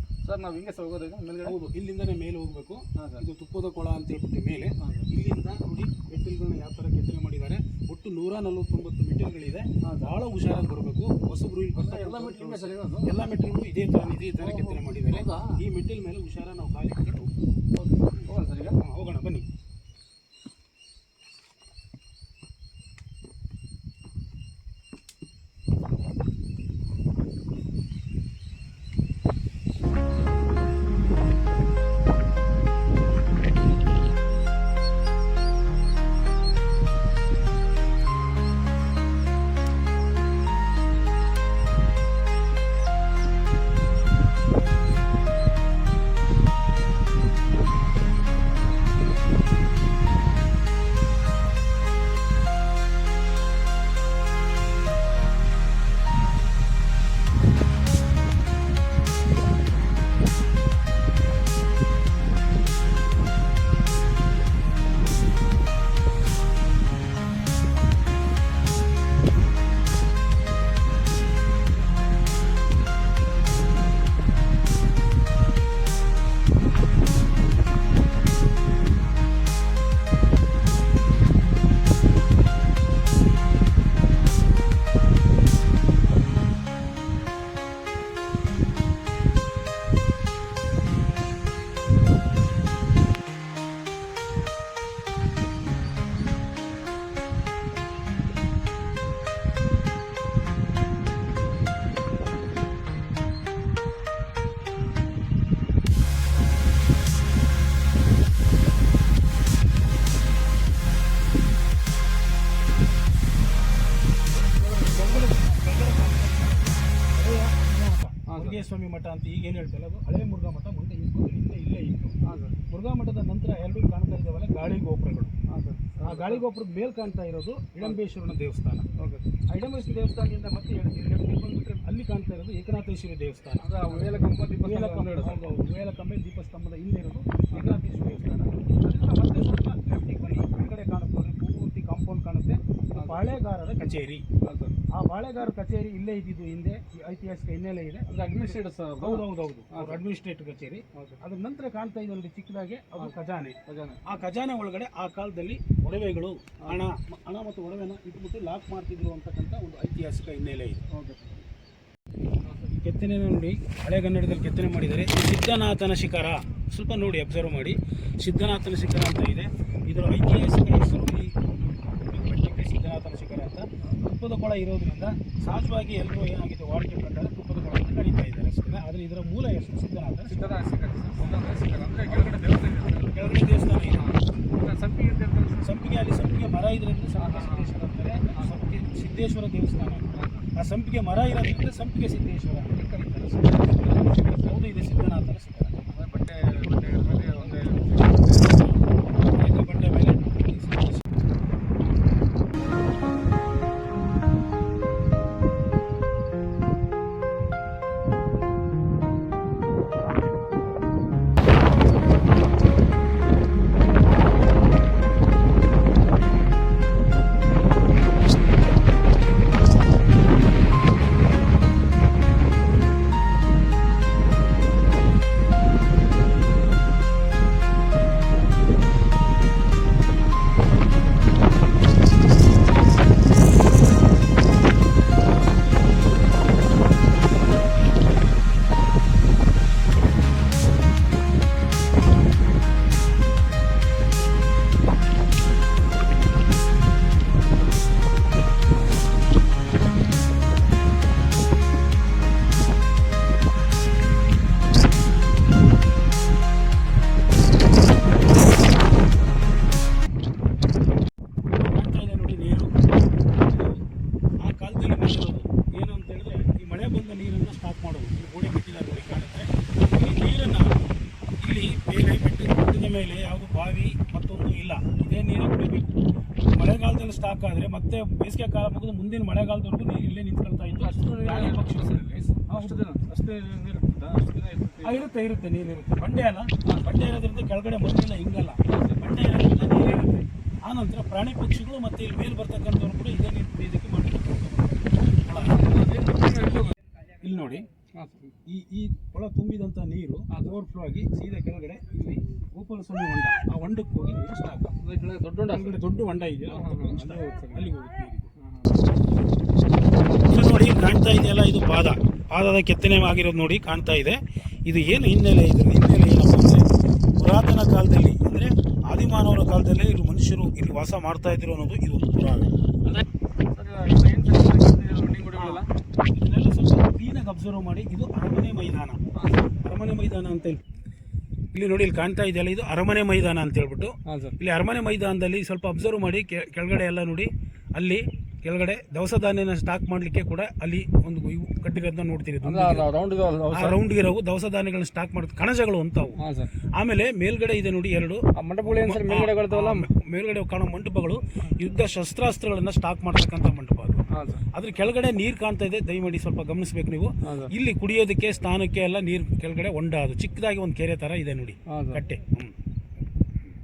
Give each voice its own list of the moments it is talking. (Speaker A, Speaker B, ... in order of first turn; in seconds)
Speaker A: 0.2-1.6, 3.0-3.2, 4.8-5.1, 9.8-10.1, 11.7-13.2, 14.4-15.6, 17.7-18.8, 114.4-115.3, 118.2-118.6, 122.2-122.6, 125.5-126.4, 129.0-129.2, 133.6-135.4, 137.5-137.8, 142.9-143.2, 144.4-144.8, 148.1-150.0, 150.9-151.2, 153.7-154.0, 160.9-161.4, 162.4-162.7, 180.3-185.7, 187.2-187.7, 188.3-188.5, 190.1-190.4, 193.3-194.6, 195.9-198.7, 280.8-285.1, 286.6-287.0, 288.6-289.1, 295.3-296.7, 297.9-298.3, 304.8-305.8, 306.5-307.7, 308.4-308.8, 322.8-325.7, 329.1-329.5, 334.1-334.4, 342.4-343.8, 346.2-346.5, 348.3-349.9, 354.1-354.4, 357.2-357.5, 361.7-362.0
Speaker B: 1.4-17.3, 18.1-19.4, 114.8-125.3, 126.0-128.9, 129.5-144.2, 144.9-160.8, 162.7-180.4, 181.2-181.5, 182.0-182.4, 183.0-184.1, 185.6-195.8, 199.2-201.1, 261.5-263.8, 264.4-270.8, 271.4-282.9, 284.8-295.7, 297.2-297.7, 298.4-304.7, 305.5-308.3, 310.2-316.6, 317.2-322.5, 325.3-329.0, 329.6-330.6, 331.5-342.9, 343.5-346.2, 346.7-362.5